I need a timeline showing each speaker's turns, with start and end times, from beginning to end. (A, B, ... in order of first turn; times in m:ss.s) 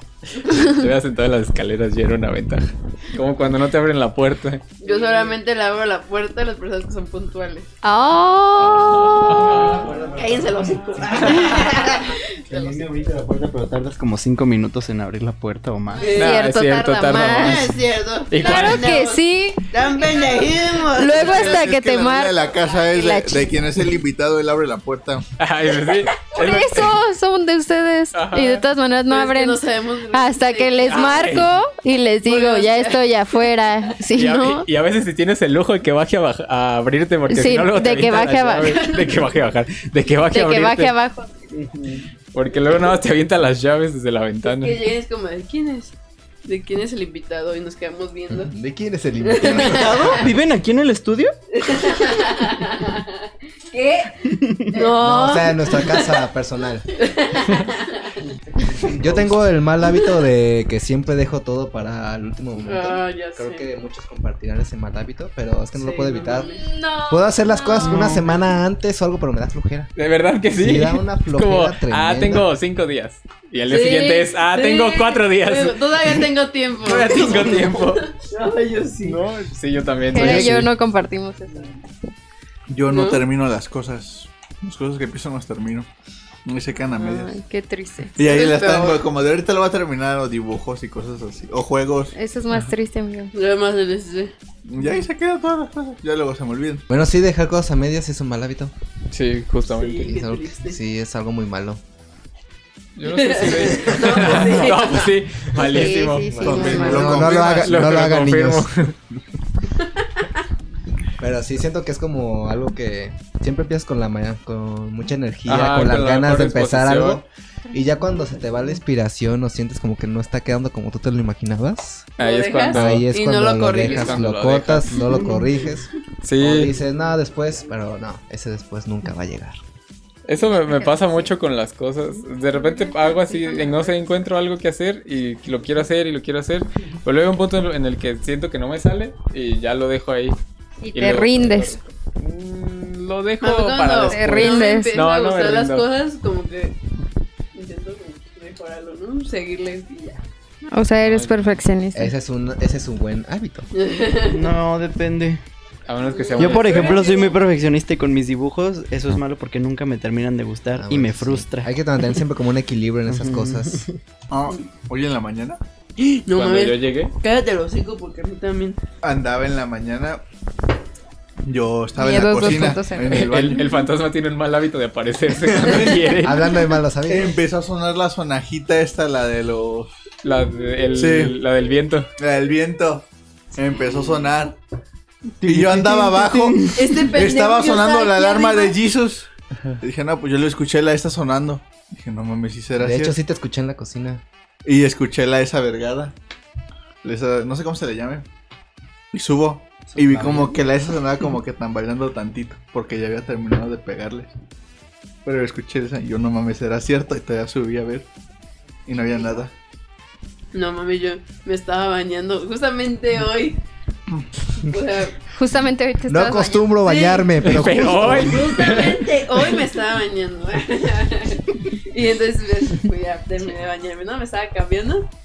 0:00.5-0:04.6 A
0:04.8-0:07.7 B
0:07.8-0:09.8 C
0:08.8-0:09.9 A
0:09.7-0:16.2 D
0:10.0-0:12.2 B
0:11.2-0:11.7 A
0:16.0-0:16.4 B
0:16.0-0:17.7 C
0:16.2-0:19.0 A
0:17.3-0:21.6 B
0:18.4-0:19.7 C
0:20.8-0:23.5 C
0:21.1-0:25.3 E
0:25.4-0:27.0 A
0:26.2-0:34.7 C
0:28.1-0:28.6 A
0:29.1-0:31.4 B
0:30.8-0:31.5 A
0:32.2-0:33.5 B
0:34.1-0:40.9 A
0:37.3-0:39.1 C
0:40.3-0:41.3 C
0:41.6-0:44.8 A
0:44.4-0:45.9 B
0:46.4-0:48.5 B
0:48.3-0:50.3 F
0:49.2-0:50.2 B
0:49.4-0:51.3 D
0:51.5-0:53.2 B
0:53.7-0:56.3 B
0:54.3-0:54.7 D
0:54.9-0:56.8 F
0:56.9-0:58.1 B
0:58.8-1:06.5 F
1:02.6-1:03.6 B
1:05.7-1:06.6 B
1:06.5-1:08.1 C
1:07.1-1:09.9 F
1:07.8-1:08.3 D
1:10.0-1:16.2 A
1:10.6-1:12.5 F
1:13.7-1:19.2 B
1:16.8-1:18.0 A
1:19.0-1:20.7 A
1:20.1-1:21.7 C
1:20.1-1:20.5 F
1:22.7-1:25.9 E
1:22.9-1:23.2 B
1:26.4-1:27.4 E
1:26.9-1:28.9 C
1:28.1-1:32.1 E
1:28.4-1:29.0 B
1:32.1-1:33.3 C
1:33.3-1:34.3 B
1:34.6-1:36.8 E
1:36.9-1:38.7 F
1:39.1-1:40.1 A
1:39.7-1:40.8 B
1:40.0-1:41.8 F
1:43.0-1:48.9 A
1:43.0-1:45.1 B
1:44.5-1:45.0 C
1:45.5-1:48.7 F
1:45.6-1:47.2 C
1:46.4-1:48.0 E
1:51.2-2:02.1 F
1:55.5-1:57.2 A
2:02.2-2:03.1 A
2:02.2-2:04.2 B
2:02.7-2:09.6 F
2:03.8-2:05.0 A
2:06.2-2:06.7 A
2:10.2-2:20.4 A
2:10.4-2:11.3 C
2:12.5-2:14.2 C
2:20.8-2:21.8 C
2:20.9-2:25.8 A
2:23.4-2:26.8 B
2:24.0-2:25.0 C
2:27.5-2:30.2 B
2:30.7-2:32.1 C
2:31.0-2:31.4 A
2:31.9-2:33.7 F
2:33.7-2:34.5 B
2:34.2-2:35.4 D
2:35.8-2:37.0 A
2:36.1-2:37.4 B
2:36.4-2:41.7 D
2:40.7-2:43.8 F
2:43.1-2:44.0 D
2:44.3-2:45.6 E
2:46.0-2:48.8 B
2:46.3-2:47.1 A
2:49.0-2:50.2 E
2:51.4-2:53.7 E
2:52.0-2:53.2 C
2:53.0-2:56.4 A
2:55.5-2:56.1 E
2:56.2-2:57.3 F
2:57.0-2:59.9 E
3:00.2-3:02.1 A
3:00.9-3:01.4 E
3:02.2-3:04.6 E
3:05.4-3:07.1 D
3:05.4-3:06.6 E
3:06.7-3:08.8 B
3:07.1-3:09.3 E
3:09.8-3:13.2 E
3:12.8-3:14.2 F
3:14.6-3:16.1 E
3:17.0-3:18.2 E
3:19.1-3:24.3 E
3:19.9-3:20.6 D
3:25.2-3:28.1 E
3:28.8-3:29.5 E
3:30.5-3:33.6 B
3:34.6-3:35.2 B
3:35.3-3:37.2 C
3:36.1-3:38.6 F
3:37.4-3:39.4 A
3:38.0-3:45.1 B